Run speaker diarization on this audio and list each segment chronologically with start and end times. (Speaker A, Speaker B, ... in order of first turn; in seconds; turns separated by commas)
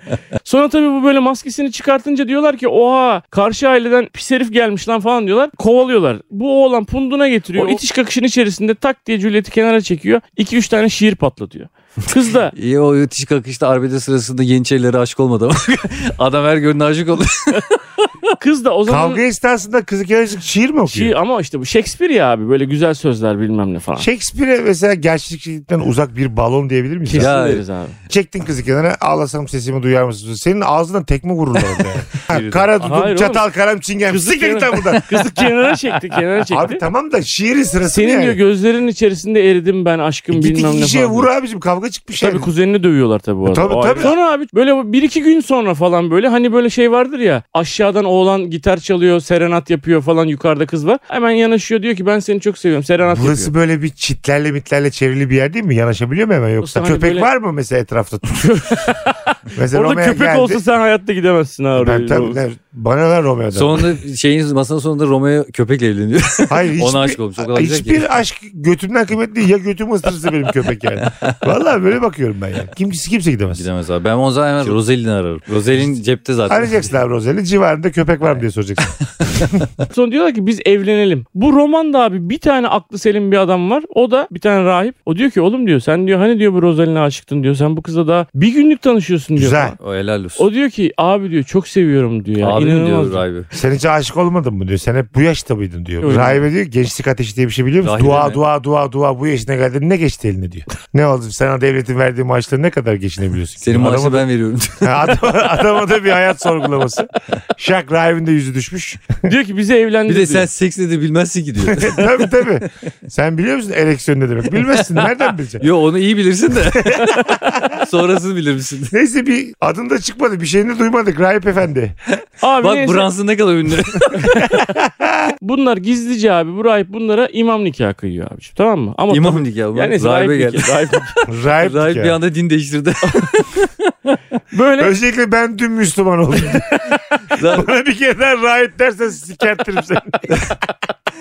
Speaker A: 0.5-12.5, Speaker B: 7.5-7.8, Speaker B: 12.5-17.8, Speaker A: 18.4-19.2, Speaker C: 18.9-21.2, Speaker A: 20.9-24.1, Speaker C: 24.0-27.3, Speaker B: 27.1-27.6, Speaker A: 27.1-28.0, Speaker C: 28.1-35.1, Speaker B: 32.2-32.7, Speaker A: 32.8-33.5, Speaker A: 34.1-36.8, Speaker B: 35.0-35.5, Speaker C: 36.5-38.4, Speaker A: 37.9-41.3, Speaker C: 40.3-42.5, Speaker A: 42.2-53.5, Speaker C: 43.5-44.2, Speaker C: 53.0-58.9, Speaker A: 56.6-57.3, Speaker A: 58.4-62.4, Speaker C: 59.5-60.6, Speaker C: 61.8-64.0, Speaker B: 63.5-68.0, Speaker C: 66.5-73.7, Speaker B: 71.0-71.4, Speaker B: 73.5-76.9, Speaker C: 76.5-79.7, Speaker A: 79.9-89.8, Speaker C: 89.4-89.8, Speaker B: 89.8-90.5, Speaker A: 90.4-93.2, Speaker B: 92.4-93.5, Speaker C: 93.5-104.3, Speaker A: 96.0-96.4, Speaker B: 96.1-96.4, Speaker B: 97.8-98.4, Speaker B: 103.6-105.1, Speaker C: 104.8-109.2, Speaker A: 109.2-110.5, Speaker B: 110.1-112.3, Speaker C: 111.6-115.6, Speaker B: 114.6-118.9, Speaker C: 116.5-117.8, Speaker C: 118.9-122.0, Speaker B: 122.2-124.6, Speaker A: 122.4-123.1, Speaker C: 124.1-125.3, Speaker A: 125.4-131.2, Speaker B: 129.1-133.9, Speaker C: 131.3-132.2, Speaker A: 134.5-134.9, Speaker C: 134.8-140.7, Speaker B: 137.3-137.7